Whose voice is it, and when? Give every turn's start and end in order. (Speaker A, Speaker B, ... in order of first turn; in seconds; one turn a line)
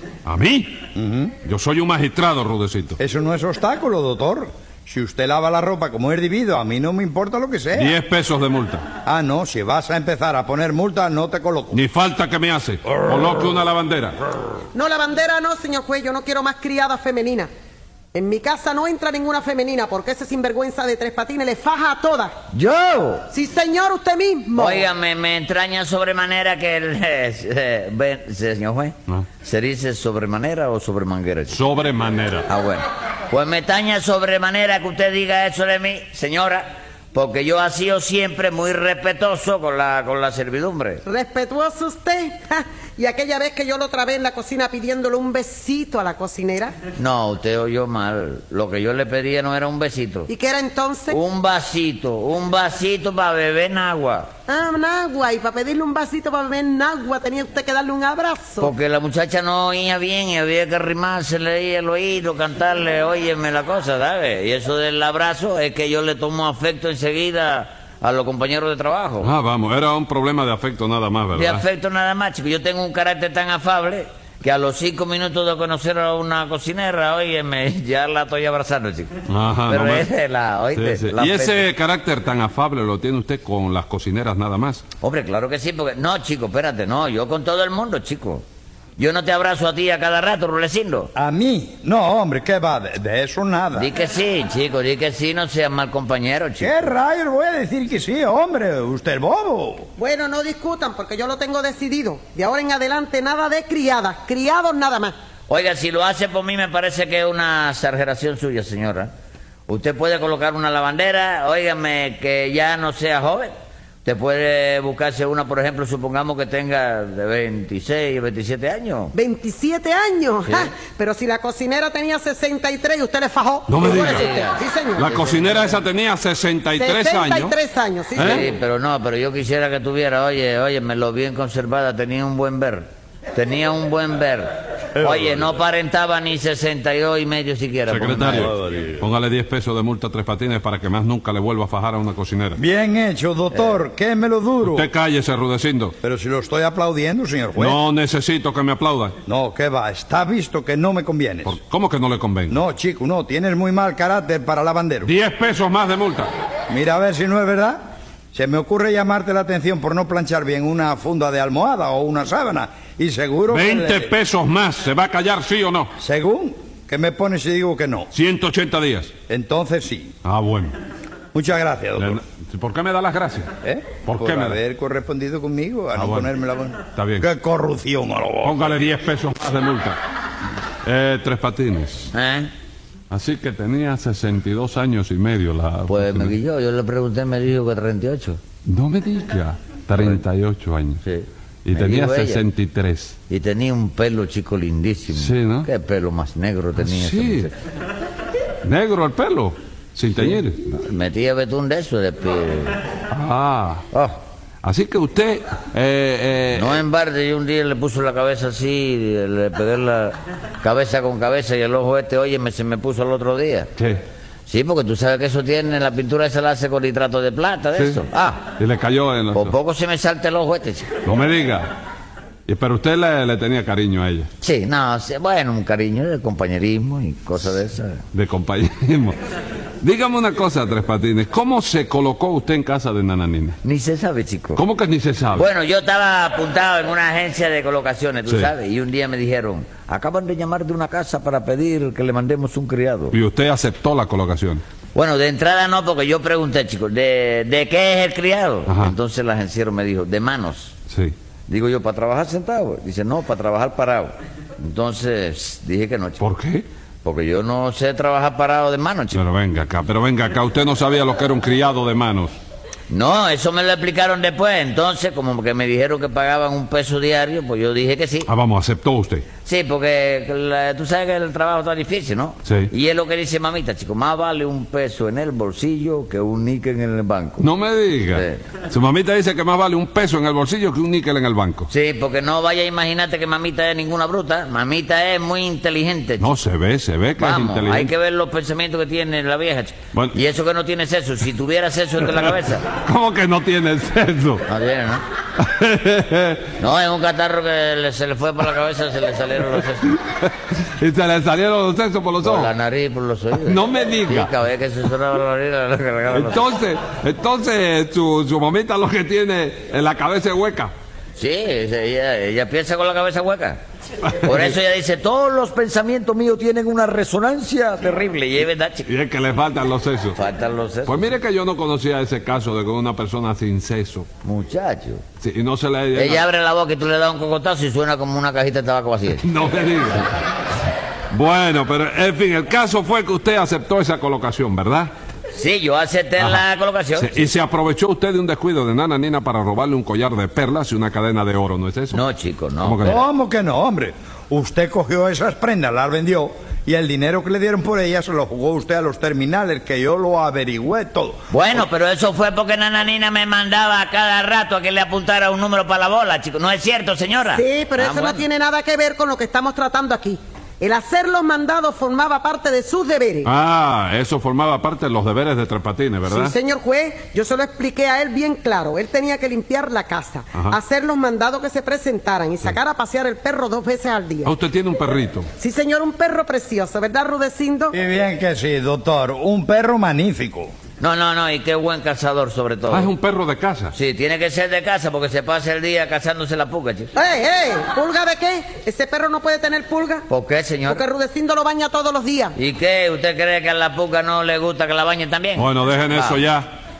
Speaker A: 0.2-0.8
Speaker B: 0.9-1.3
Speaker A: 1.4-3.0
Speaker B: 3.0-8.0
Speaker A: 7.7-8.8
Speaker B: 9.1-11.8
Speaker A: 11.7-14.2
Speaker C: 14.7-17.5
Speaker C: 18.1-22.3
Speaker D: 22.5-23.3
Speaker C: 23.3-24.9
Speaker D: 24.6-31.6
Speaker A: 31.5-32.5
Speaker D: 32.5-41.0
Speaker C: 41.1-46.7
Speaker D: 47.0-50.3
Speaker C: 50.3-51.2
Speaker D: 51.1-54.3
Speaker C: 54.5-58.7
Speaker D: 58.6-69.3
Speaker A: 69.2-71.6
Speaker D: 71.3-79.2
Speaker A: 79.3-80.1
Speaker D: 79.7-81.7
Speaker A: 80.7-84.8
Speaker D: 85.0-88.4
Speaker D: 89.0-91.1
Speaker B: 91.2-93.9
Speaker D: 93.8-96.9
Speaker B: 96.6-99.9
Speaker C: 100.0-105.1
Speaker D: 105.5-109.1
Speaker D: 109.7-113.5
Speaker D: 114.0-119.2
Speaker C: 119.1-125.2
Speaker A: 123.7-124.3
Speaker D: 123.8-125.8
Speaker A: 125.0-127.6
Speaker C: 126.8-128.5
Speaker A: 128.2-128.5
Speaker D: 128.2-138.6
Speaker B: 135.0-135.4
Speaker A: 137.9-142.6
Speaker B: 138.4-138.9
Speaker B: 142.6-144.9
Speaker A: 144.6-145.9
Speaker B: 146.0-147.8
Speaker A: 147.6-149.2
Speaker B: 149.3-151.6
Speaker A: 151.4-152.6
Speaker B: 152.5-155.1
Speaker A: 155.1-156.3
Speaker B: 156.7-157.8
Speaker B: 158.3-164.1
Speaker A: 163.5-165.9
Speaker B: 166.0-168.1
Speaker A: 168.1-169.1
Speaker B: 169.3-170.1
Speaker A: 170.2-170.8
Speaker B: 171.3-172.2
Speaker A: 172.0-173.5
Speaker B: 173.6-178.8
Speaker A: 174.0-174.6
Speaker A: 175.9-176.3
Speaker A: 176.9-177.3
Speaker A: 178.4-180.0
Speaker A: 180.8-182.1
Speaker D: 182.1-182.5
Speaker A: 183.1-186.4
Speaker D: 185.9-188.4
Speaker A: 188.7-191.0
Speaker D: 191.0-192.4
Speaker A: 191.7-193.2
Speaker D: 193.3-197.5
Speaker A: 195.1-195.7
Speaker A: 196.8-197.5
Speaker A: 198.6-200.6
Speaker D: 200.6-202.8
Speaker A: 203.1-203.8
Speaker D: 203.9-204.2
Speaker A: 204.6-206.8
Speaker D: 206.5-213.7
Speaker D: 214.5-218.4
Speaker A: 218.6-219.6
Speaker D: 219.3-220.9
Speaker A: 221.0-221.7
Speaker A: 222.5-224.3
Speaker D: 224.4-228.0
Speaker A: 228.1-229.2
Speaker A: 229.8-233.6
Speaker D: 233.6-234.6
Speaker A: 234.6-235.5
Speaker D: 235.3-243.2
Speaker A: 238.3-238.5
Speaker A: 243.1-244.6
Speaker D: 244.9-250.8
Speaker A: 248.7-248.9
Speaker D: 251.5-256.2
Speaker A: 256.2-256.7
Speaker D: 257.0-259.2
Speaker A: 259.1-262.3
Speaker D: 262.9-268.3
Speaker A: 268.3-269.2
Speaker D: 269.4-277.5
Speaker A: 272.4-272.7
Speaker A: 277.4-281.7
Speaker D: 278.1-278.4
Speaker D: 281.7-286.3
Speaker A: 286.2-287.9
Speaker D: 287.2-292.7
Speaker A: 292.3-294.4
Speaker D: 294.5-295.0
Speaker A: 295.4-296.5
Speaker D: 296.6-300.0
Speaker A: 300.1-302.5
Speaker D: 302.2-306.5
Speaker A: 303.4-304.3
Speaker A: 306.1-310.7
Speaker D: 311.2-313.6
Speaker D: 314.2-318.9
Speaker A: 318.9-320.2
Speaker D: 320.1-321.0
Speaker A: 320.9-324.1
Speaker D: 324.2-325.0
Speaker A: 325.2-326.2
Speaker D: 325.9-329.3
Speaker A: 329.2-330.1
Speaker A: 331.1-334.9
Speaker D: 335.3-337.3
Speaker A: 337.0-342.0
Speaker D: 341.9-343.0
Speaker A: 342.6-343.0
Speaker B: 342.8-351.2
Speaker D: 351.3-358.2
Speaker C: 357.3-363.3
Speaker A: 363.2-366.4
Speaker C: 366.1-374.3
Speaker A: 374.2-375.3
Speaker C: 375.4-377.8
Speaker B: 377.7-380.5
Speaker D: 380.8-382.9
Speaker A: 382.7-383.7
Speaker D: 383.7-386.9
Speaker C: 386.9-390.1
Speaker D: 390.1-390.9
Speaker C: 390.7-392.4
Speaker D: 392.4-396.2
Speaker A: 395.4-396.5